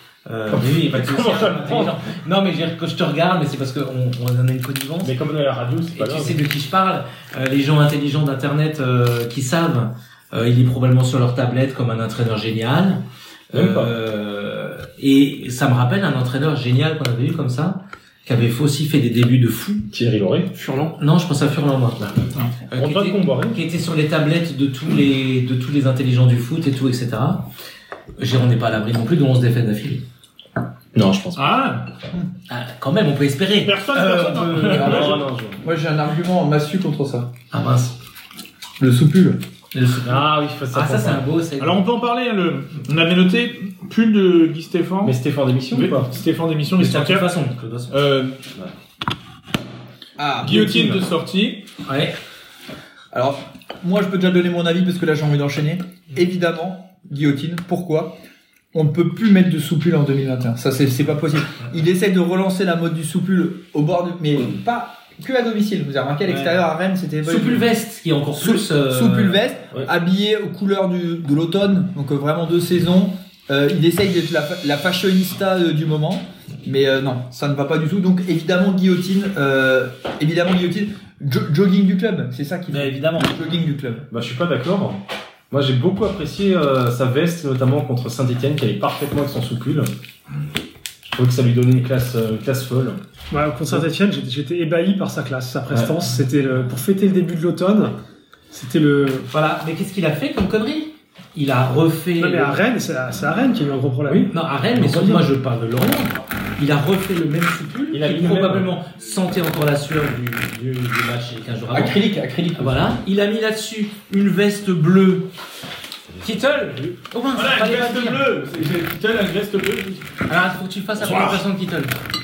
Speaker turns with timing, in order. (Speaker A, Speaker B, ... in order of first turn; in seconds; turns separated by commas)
Speaker A: 0.2-5.1, Speaker B: 0.5-2.0, Speaker B: 5.0-6.4, Speaker A: 5.9-19.9, Speaker B: 13.5-13.9, Speaker B: 19.9-20.5, Speaker A: 20.5-22.0, Speaker B: 22.0-23.6, Speaker A: 22.7-27.4, Speaker A: 28.2-30.0, Speaker B: 30.9-31.6, Speaker C: 31.4-31.9, Speaker A: 32.5-35.2, Speaker C: 33.6-35.2, Speaker B: 34.6-35.6, Speaker D: 35.6-37.3, Speaker A: 37.5-37.9, Speaker D: 38.8-39.4, Speaker A: 39.7-41.8, Speaker B: 40.0-41.2, Speaker C: 41.6-45.2, Speaker B: 45.0-46.1, Speaker C: 45.7-47.3, Speaker A: 46.8-48.0, Speaker C: 47.9-48.4, Speaker D: 50.2-50.6, Speaker C: 50.4-51.6, Speaker B: 50.4-51.0, Speaker A: 51.9-52.1, Speaker D: 53.1-58.2, Speaker D: 58.7-67.7, Speaker A: 66.3-66.6, Speaker A: 67.2-69.4, Speaker D: 68.4-84.0, Speaker A: 82.7-83.3, Speaker B: 84.1-89.9, Speaker B: 91.1-93.0, Speaker E: 93.3-97.9, Speaker B: 95.7-96.0, Speaker E: 98.5-99.3, Speaker A: 99.3-102.6, Speaker E: 102.2-105.2, Speaker A: 104.3-115.3, Speaker B: 107.9-108.7, Speaker D: 111.7-112.9, Speaker A: 116.2-118.2, Speaker C: 117.3-120.0, Speaker A: 120.3-121.9, Speaker C: 121.0-121.4